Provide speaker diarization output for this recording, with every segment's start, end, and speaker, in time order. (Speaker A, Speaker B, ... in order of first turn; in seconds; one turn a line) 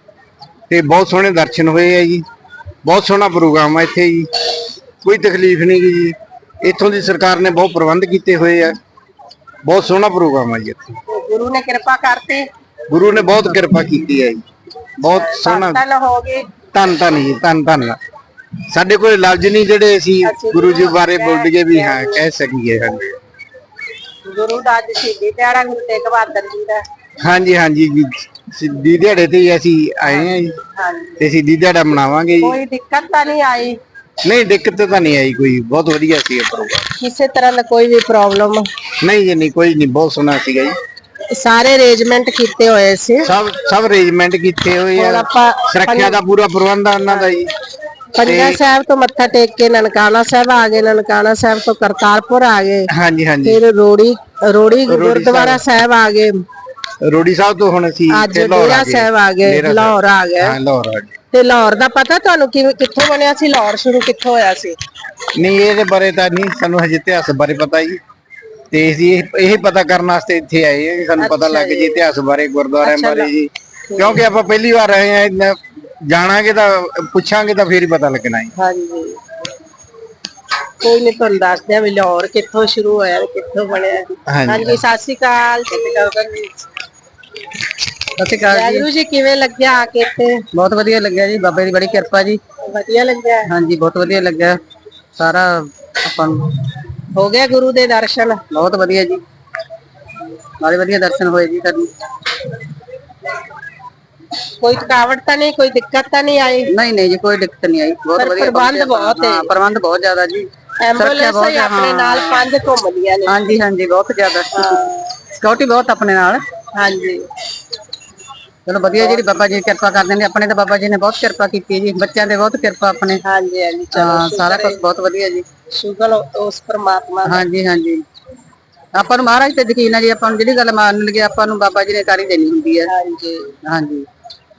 Speaker A: 0.7-2.2
Speaker A: 2.8-4.3
Speaker A: 5.0-8.8
Speaker A: 9.6-11.0
Speaker B: 11.1-12.5
Speaker A: 12.9-14.4
Speaker A: 15.0-15.8
Speaker B: 15.0-16.5
Speaker A: 16.7-18.0
Speaker A: 18.7-23.2
Speaker B: 20.2-22.2
Speaker B: 24.2-26.9
Speaker A: 27.2-30.6
Speaker B: 30.0-31.2
Speaker A: 31.2-32.6
Speaker B: 32.4-33.8
Speaker A: 34.2-36.8
Speaker B: 37.0-38.7
Speaker A: 39.0-40.8
Speaker B: 41.3-43.3
Speaker A: 43.2-47.5
Speaker B: 45.0-46.2
Speaker B: 47.1-47.4
Speaker B: 48.1-52.9
Speaker A: 48.2-48.6
Speaker A: 52.9-53.6
Speaker B: 53.4-56.4
Speaker A: 54.9-55.6
Speaker A: 57.0-61.1
Speaker B: 58.1-60.6
Speaker B: 61.3-64.8
Speaker A: 65.3-68.0
Speaker A: 68.7-78.5
Speaker B: 71.2-72.0
Speaker B: 72.8-73.3
Speaker B: 73.9-74.2
Speaker B: 78.6-79.2
Speaker B: 80.8-86.5
Speaker A: 84.3-84.8
Speaker C: 88.2-88.9
Speaker B: 88.5-90.5
Speaker C: 90.5-92.4
Speaker B: 92.7-93.5
Speaker C: 93.5-94.6
Speaker C: 95.2-96.7
Speaker B: 97.1-98.4
Speaker C: 98.5-99.2
Speaker C: 100.6-101.9
Speaker B: 104.6-106.7
Speaker C: 106.7-112.5
Speaker B: 108.2-109.5
Speaker B: 110.8-113.5
Speaker C: 113.3-116.4
Speaker B: 114.5-115.0
Speaker B: 116.8-117.3
Speaker C: 118.7-123.2
Speaker B: 123.2-124.8
Speaker C: 123.9-125.5
Speaker B: 125.7-127.4
Speaker C: 127.2-128.0
Speaker C: 128.9-132.9
Speaker B: 132.9-133.6
Speaker C: 133.7-134.1